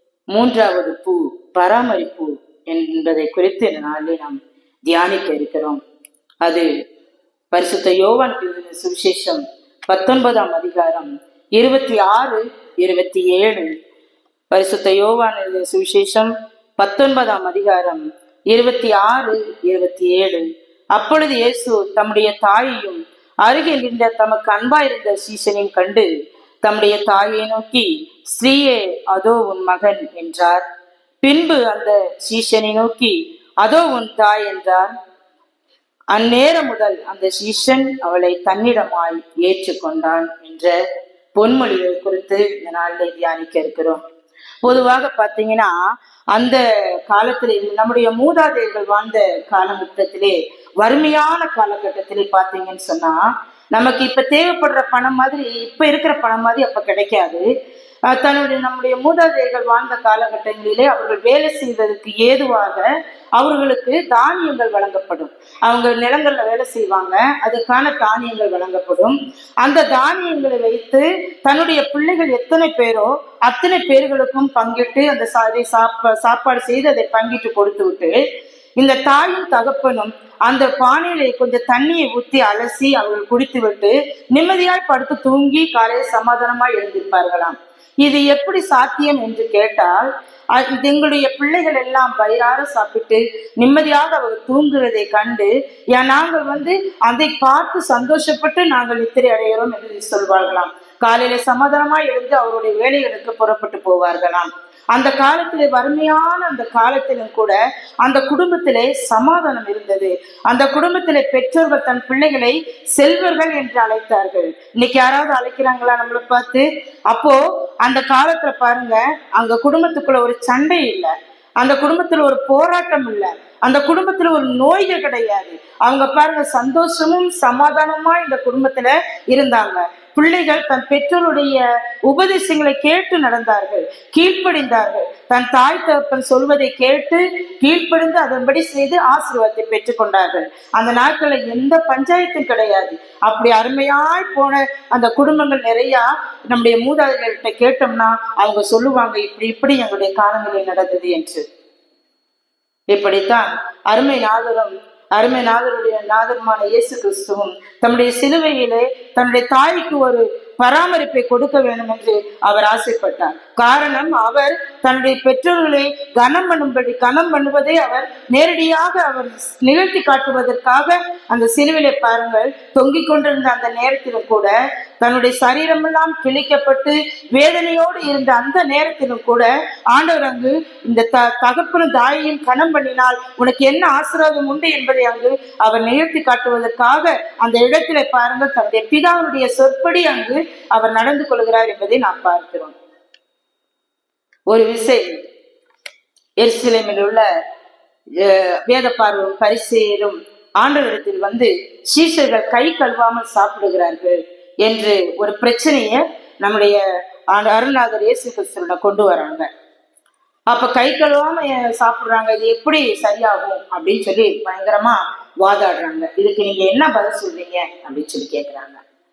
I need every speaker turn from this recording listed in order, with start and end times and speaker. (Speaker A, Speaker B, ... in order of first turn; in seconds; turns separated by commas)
Speaker A: 0.3-5.8, Speaker A: 6.4-6.7, Speaker A: 7.5-13.7, Speaker A: 14.5-26.1, Speaker A: 26.6-30.6, Speaker A: 31.2-34.9, Speaker A: 36.1-40.8, Speaker A: 41.4-44.0, Speaker A: 44.6-45.8, Speaker A: 46.3-57.5, Speaker A: 58.1-78.2, Speaker A: 78.8-151.4, Speaker A: 152.9-192.8, Speaker A: 194.5-195.2, Speaker A: 196.4-197.3, Speaker A: 198.2-209.5, Speaker A: 210.5-218.8